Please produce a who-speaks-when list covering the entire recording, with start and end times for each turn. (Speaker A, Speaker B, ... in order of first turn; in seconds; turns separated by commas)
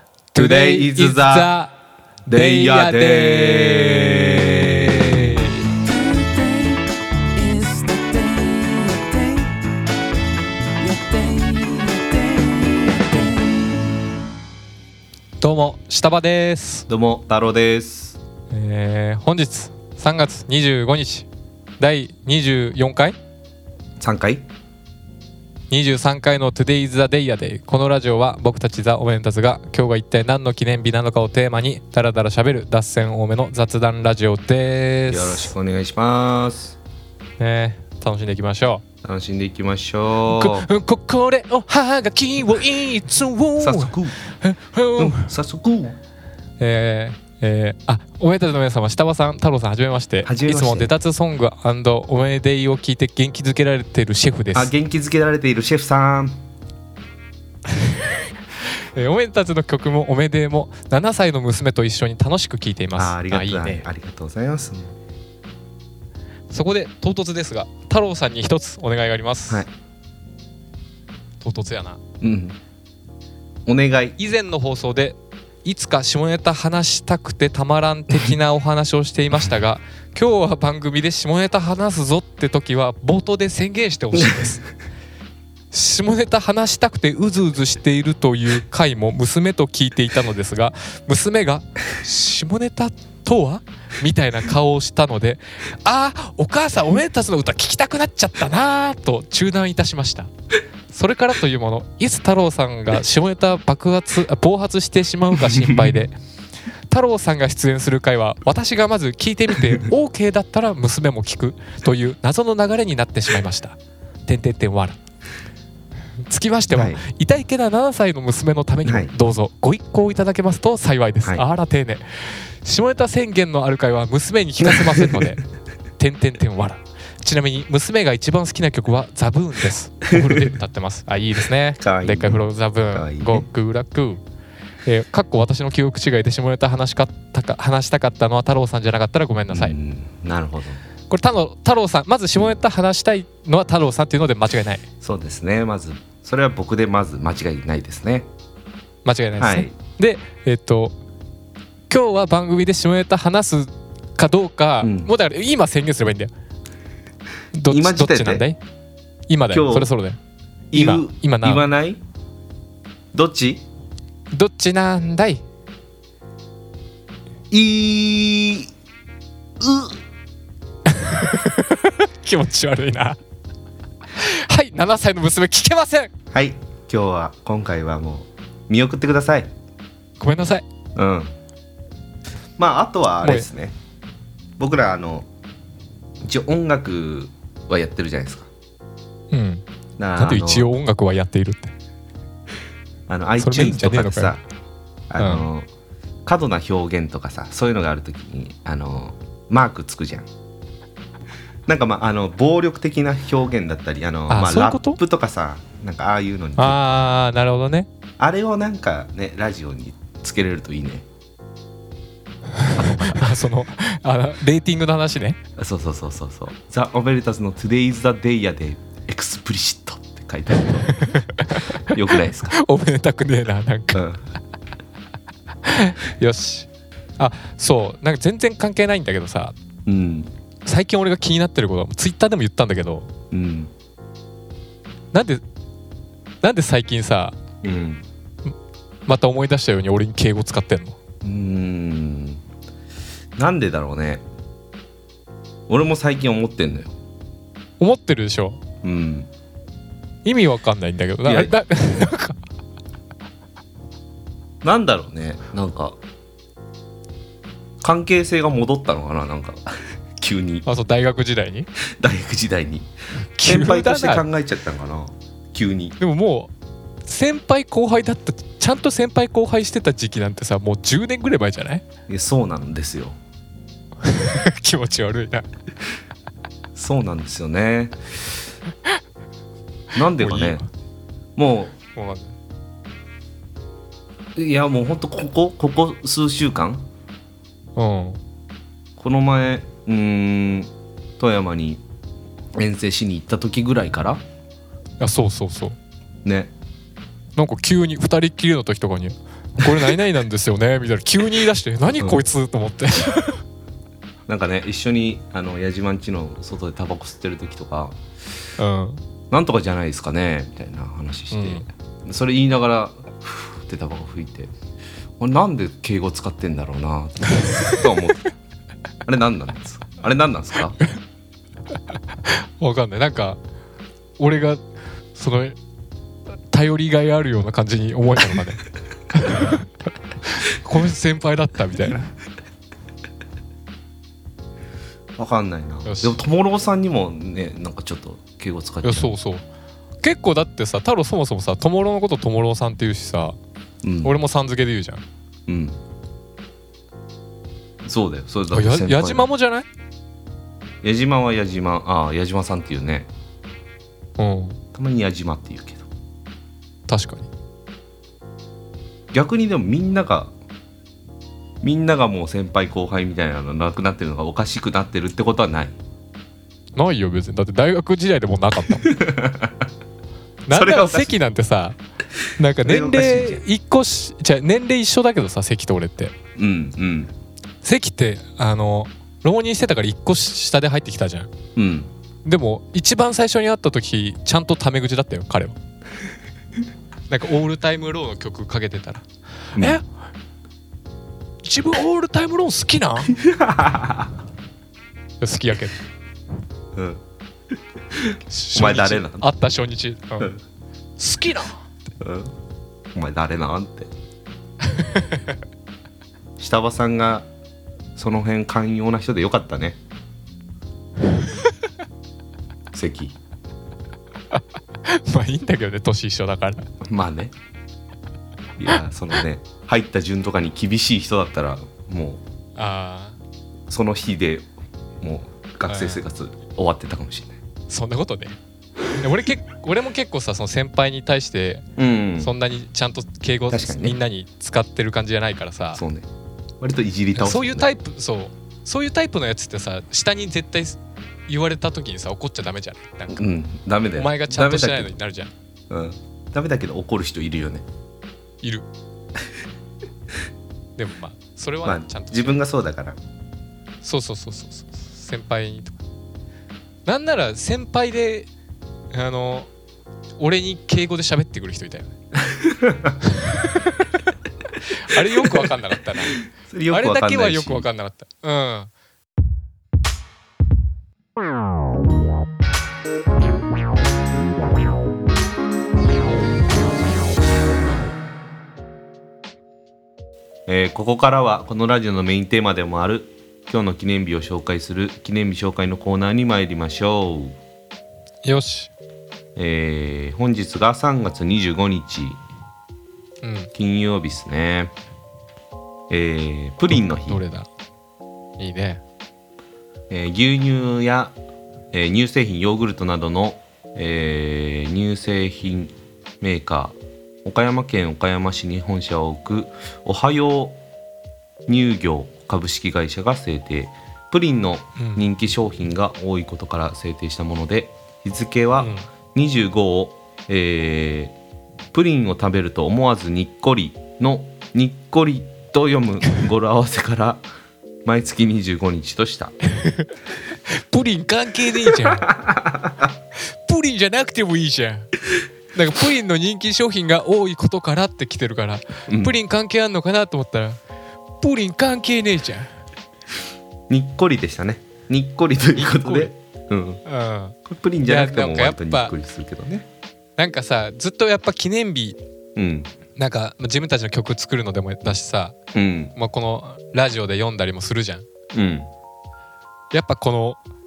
Speaker A: 0.3-1.7, Speaker B: 0.3-1.5, Speaker B: 2.2-5.4, Speaker A: 2.3-5.7, Speaker C: 5.7-9.6, Speaker C: 10.8-13.9, Speaker A: 15.4-16.9, Speaker B: 16.9-18.2, Speaker A: 18.5-21.3, Speaker A: 21.8-23.2, Speaker B: 24.0-24.4, Speaker A: 25.7-35.5, Speaker B: 35.1-36.8, Speaker A: 37.4-38.8, Speaker B: 39.0-40.7, Speaker A: 40.2-45.3, Speaker B: 43.6-44.1, Speaker B: 45.0-46.0, Speaker A: 46.6-54.7, Speaker B: 50.2-50.9, Speaker B: 54.5-56.4, Speaker A: 57.7-58.2, Speaker A: 59.0-63.9, Speaker B: 63.0-65.0, Speaker A: 66.5-69.6, Speaker A: 71.4-72.0, Speaker B: 72.2-72.6, Speaker B: 73.7-74.2, Speaker A: 74.2-84.7, Speaker A: 85.7-100.3, Speaker A: 100.9-106.1, Speaker B: 105.4-105.9, Speaker A: 106.9-115.0, Speaker A: 116.3-125.4, Speaker B: 116.7-117.0, Speaker B: 118.8-119.1, Speaker B: 124.7-125.2, Speaker A: 126.0-134.2, Speaker B: 130.2-130.5, Speaker B: 131.8-133.5, Speaker A: 134.8-139.8, Speaker B: 139.5-140.8, Speaker A: 141.1-144.8, Speaker B: 145.0-148.3, Speaker A: 149.0-150.9, Speaker B: 149.4-149.7, Speaker A: 151.9-156.3, Speaker B: 154.8-155.1, Speaker A: 157.5-158.6, Speaker B: 157.7-158.4, Speaker A: 159.3-160.2, Speaker B: 159.5-159.9, Speaker B: 160.7-162.0, Speaker A: 160.7-161.6, Speaker B: 163.1-163.7, Speaker A: 164.3-165.4, Speaker B: 167.5-168.7, Speaker B: 169.6-170.0, Speaker A: 170.9-173.2, Speaker A: 174.1-176.1, Speaker B: 176.3-179.5, Speaker A: 180.2-180.6, Speaker B: 180.9-181.3, Speaker B: 182.6-183.7, Speaker A: 183.2-183.5, Speaker B: 184.6-185.3, Speaker B: 186.2-188.5, Speaker A: 189.3-189.6, Speaker B: 190.0-190.7, Speaker A: 190.2-191.7, Speaker B: 193.1-194.4, Speaker A: 193.4-194.3, Speaker B: 195.1-195.7, Speaker A: 195.2-195.5, Speaker B: 196.2-200.3, Speaker B: 201.7-206.8, Speaker A: 204.3-205.0, Speaker A: 206.6-207.9, Speaker B: 208.2-211.1, Speaker A: 212.6-215.4, Speaker B: 212.7-213.3, Speaker B: 215.6-221.0, Speaker A: 220.8-224.0, Speaker B: 221.8-222.6, Speaker B: 223.9-224.2, Speaker A: 225.6-229.5, Speaker B: 229.8-230.3, Speaker A: 230.6-233.1, Speaker B: 233.3-233.7, Speaker A: 235.1-235.4, Speaker A: 236.4-237.3, Speaker B: 237.6-238.1, Speaker A: 239.1-241.0, Speaker B: 241.2-242.4, Speaker B: 243.3-244.2, Speaker B: 245.7-246.9, Speaker A: 247.8-248.6, Speaker B: 248.8-249.3, Speaker A: 250.2-252.4, Speaker B: 251.2-251.5, Speaker B: 254.6-256.0, Speaker B: 257.8-260.6, Speaker A: 260.6-261.7, Speaker B: 262.0-262.9, Speaker A: 263.4-264.2, Speaker B: 263.4-266.0, Speaker A: 266.0-266.5, Speaker A: 267.1-271.8, Speaker B: 272.1-273.2, Speaker A: 274.0-275.4, Speaker B: 276.7-278.4, Speaker B: 279.9-280.6, Speaker A: 280.2-280.6, Speaker B: 281.4-281.7, Speaker A: 281.9-282.4, Speaker B: 284.4-286.9, Speaker A: 287.8-288.2, Speaker B: 289.0-291.8, Speaker B: 292.6-294.2, Speaker A: 295.0-295.8, Speaker B: 296.2-296.5, Speaker A: 297.4-303.4, Speaker B: 304.3-308.0, Speaker A: 308.6-309.0, Speaker B: 309.3-314.5, Speaker A: 311.3-311.6, Speaker B: 315.2-318.3, Speaker B: 319.0-320.8, Speaker A: 322.3-323.4, Speaker A: 324.2-324.6, Speaker A: 325.1-325.6, Speaker A: 326.5-329.7, Speaker A: 330.2-332.1, Speaker B: 335.2-339.1, Speaker A: 335.8-336.2, Speaker A: 338.8-339.4, Speaker A: 340.0-343.4, Speaker B: 343.8-344.1, Speaker A: 344.0-345.0, Speaker B: 345.5-345.8, Speaker B: 347.8-349.3, Speaker A: 348.5-349.6, Speaker B: 350.8-353.1, Speaker A: 354.2-354.6, Speaker B: 354.7-355.9, Speaker A: 356.9-357.3, Speaker B: 359.1-360.3, Speaker B: 361.6-365.8, Speaker A: 366.8-368.9, Speaker B: 368.7-369.7, Speaker A: 370.4-371.8, Speaker B: 370.5-371.1, Speaker A: 372.4-376.1, Speaker B: 372.6-373.4, Speaker B: 376.4-377.1, Speaker A: 377.6-381.3, Speaker B: 381.6-381.9, Speaker A: 382.2-385.6, Speaker A: 387.1-389.8, Speaker A: 391.4-393.1, Speaker B: 393.1-394.2, Speaker A: 395.2-395.8, Speaker B: 396.7-397.0, Speaker B: 397.9-399.3, Speaker A: 398.3-400.3, Speaker A: 401.0-401.6, Speaker B: 402.0-402.3, Speaker B: 402.9-403.9, Speaker A: 404.6-405.2, Speaker B: 406.4-407.2, Speaker B: 407.9-409.8, Speaker B: 412.7-413.1, Speaker A: 414.3-416.7, Speaker B: 416.8-417.3, Speaker B: 418.6-422.2, Speaker A: 422.6-423.2, Speaker B: 423.7-424.5, Speaker B: 425.0-427.4, Speaker A: 425.7-426.0, Speaker A: 427.7-428.4, Speaker A: 429.0-431.6, Speaker B: 431.8-432.3, Speaker A: 432.2-435.8, Speaker B: 433.5-434.0, Speaker B: 435.8-436.1, Speaker B: 436.6-437.7, Speaker A: 437.1-443.2, Speaker B: 443.1-444.9, Speaker A: 443.9-445.3, Speaker B: 445.7-447.6, Speaker A: 448.4-448.7, Speaker A: 450.8-452.4, Speaker B: 451.6-453.0, Speaker A: 453.8-455.8, Speaker A: 456.9-458.3, Speaker A: 458.9-459.5, Speaker A: 460.2-461.9, Speaker B: 462.2-463.0, Speaker A: 463.1-463.5, Speaker A: 464.7-468.7, Speaker B: 464.9-465.5, Speaker B: 466.3-467.7, Speaker B: 480.5-487.4, Speaker A: 488.2-488.7, Speaker B: 489.4-492.2, Speaker A: 493.2-493.5, Speaker B: 493.5-494.7, Speaker B: 495.9-497.2, Speaker A: 496.7-497.5, Speaker A: 498.4-498.8, Speaker B: 499.9-501.1, Speaker B: 501.7-510.6, Speaker B: 511.5-521.1, Speaker A: 514.8-515.0, Speaker A: 518.6-518.9, Speaker B: 521.7-527.2, Speaker B: 527.8-529.3, Speaker A: 529.5-529.9, Speaker A: 530.5-532.1, Speaker B: 531.8-532.9, Speaker A: 533.4-534.9, Speaker A: 535.5-540.6, Speaker B: 538.9-539.1, Speaker A: 541.2-542.5, Speaker B: 543.7-546.8, Speaker A: 545.5-546.1, Speaker A: 546.8-548.9, Speaker B: 547.5-549.6, Speaker A: 550.2-552.0, Speaker B: 552.4-552.7, Speaker A: 553.0-555.4, Speaker B: 555.5-555.9, Speaker A: 555.9-558.0, Speaker B: 558.3-558.7, Speaker A: 559.7-560.4